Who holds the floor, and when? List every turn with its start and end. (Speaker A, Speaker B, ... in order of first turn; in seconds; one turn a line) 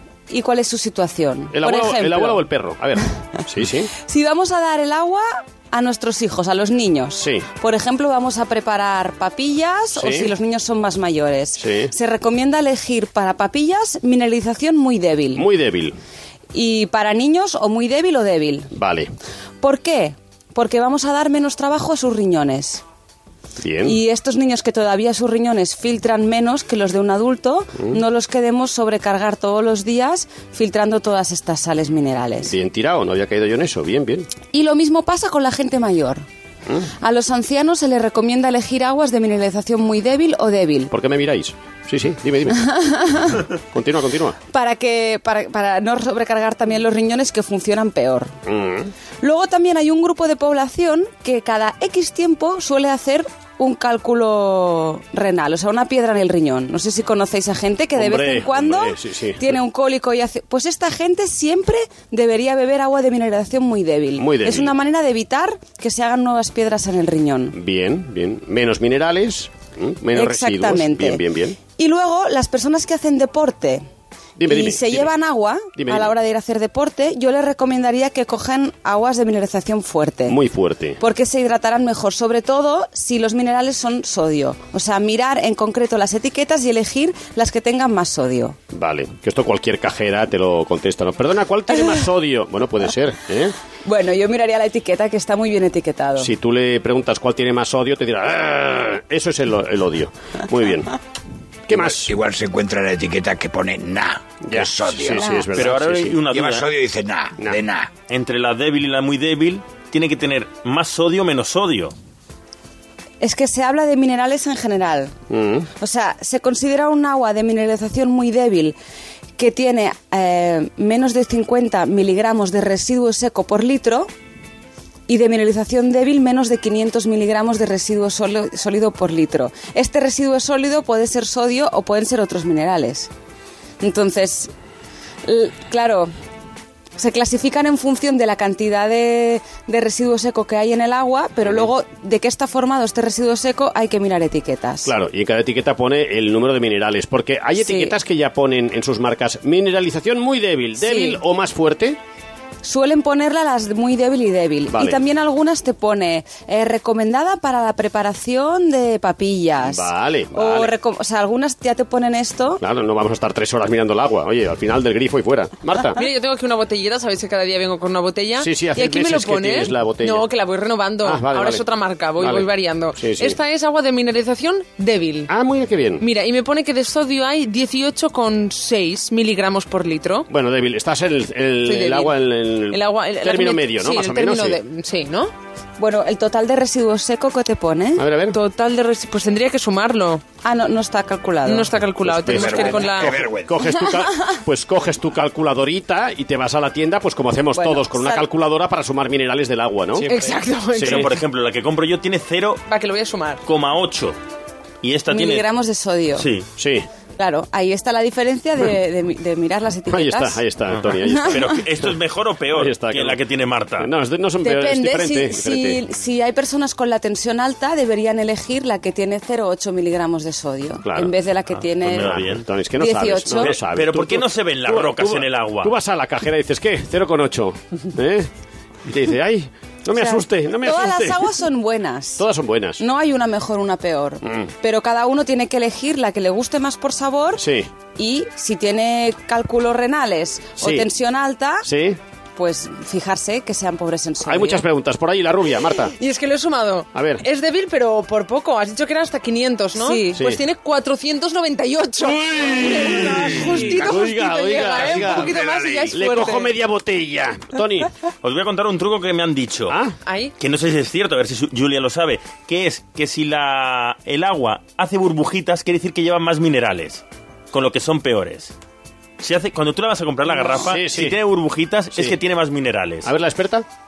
Speaker A: 0.3-2.4
Speaker B: 1.5-3.9
Speaker A: 4.0-15.4
Speaker B: 7.2-7.5
Speaker B: 10.0-10.3
Speaker B: 11.6-11.9
Speaker B: 15.3-16.0
Speaker A: 16.5-18.7
Speaker B: 18.7-19.1
Speaker A: 19.6-22.8
Speaker B: 23.6-24.0
Speaker A: 23.8-32.5
Speaker B: 32.5-34.3
Speaker A: 34.5-36.2
Speaker A: 37.0-40.9
Speaker B: 40.9-44.4
Speaker A: 42.6-43.5
Speaker A: 44.5-48.3
Speaker B: 48.5-48.9
Speaker A: 49.2-67.6
Speaker B: 58.0-59.6
Speaker B: 64.2-64.8
Speaker B: 67.5-71.6
Speaker A: 70.1-71.2
Speaker A: 71.8-73.8
Speaker B: 74.4-75.1
Speaker A: 74.5-80.4
Speaker B: 75.8-76.1
Speaker B: 80.3-81.0
Speaker A: 81.0-88.6
Speaker B: 88.7-93.6
Speaker A: 93.8-96.3
Speaker B: 96.2-101.0
Speaker B: 101.7-102.1
Speaker C: 101.7-105.6
Speaker B: 104.4-106.2
Speaker D: 105.5-106.7
Speaker C: 106.3-107.9
Speaker D: 108.1-112.0
Speaker A: 113.2-115.1
Speaker B: 115.3-115.7
Speaker A: 115.8-118.8
Speaker A: 119.4-124.1
Speaker A: 125.1-133.1
Speaker A: 133.8-134.5
Speaker A: 135.2-136.1
Speaker A: 137.0-144.9
Speaker B: 141.4-141.7
Speaker B: 144.8-152.0
Speaker A: 147.6-148.0
Speaker A: 150.8-151.2
Speaker A: 152.6-162.6
Speaker B: 154.7-155.0
Speaker B: 159.6-160.8
Speaker B: 162.6-166.0
Speaker E: 165.9-175.3
Speaker B: 168.4-170.3
Speaker B: 171.0-171.7
Speaker B: 172.2-173.4
Speaker B: 175.3-176.1
Speaker E: 176.0-180.3
Speaker B: 180.3-184.6
Speaker E: 181.7-182.2
Speaker E: 182.7-185.3
Speaker A: 185.8-188.0
Speaker B: 188.0-188.4
Speaker E: 188.3-190.2
Speaker A: 190.4-191.7
Speaker E: 191.4-193.1
Speaker B: 192.0-200.1
Speaker C: 192.2-193.6
Speaker A: 197.5-198.2
Speaker E: 200.1-201.2
Speaker D: 200.7-202.6
Speaker B: 200.7-201.1
Speaker E: 202.7-203.4
Speaker D: 203.4-204.2
Speaker D: 204.8-205.4
Speaker A: 205.1-206.3
Speaker D: 206.2-206.5
Speaker B: 206.6-206.9
Speaker A: 207.2-210.4
Speaker B: 209.9-211.9
Speaker D: 210.7-213.9
Speaker B: 212.5-213.2
Speaker B: 213.8-215.8
Speaker A: 214.4-222.2
Speaker B: 220.8-221.1
Speaker D: 221.8-222.4
Speaker B: 221.8-228.3
Speaker A: 222.8-223.5
Speaker D: 223.4-225.7
Speaker B: 228.9-231.3
Speaker A: 230.0-232.2
Speaker B: 232.2-232.8
Speaker A: 232.8-237.4
Speaker B: 234.2-234.5
Speaker B: 237.4-237.7
Speaker A: 238.0-241.7
Speaker B: 240.6-240.9
Speaker B: 241.6-242.0
Speaker A: 242.4-244.6
Speaker B: 244.2-246.0
Speaker E: 245.9-256.5
Speaker B: 246.9-247.2
Speaker A: 249.8-250.2
Speaker B: 250.1-250.4
Speaker B: 252.2-257.9
Speaker C: 254.7-256.0
Speaker D: 258.2-259.8
Speaker B: 259.7-260.0
Speaker E: 260.1-260.3
Speaker D: 260.4-268.5
Speaker D: 269.2-273.1
Speaker B: 270.6-271.2
Speaker B: 273.0-273.7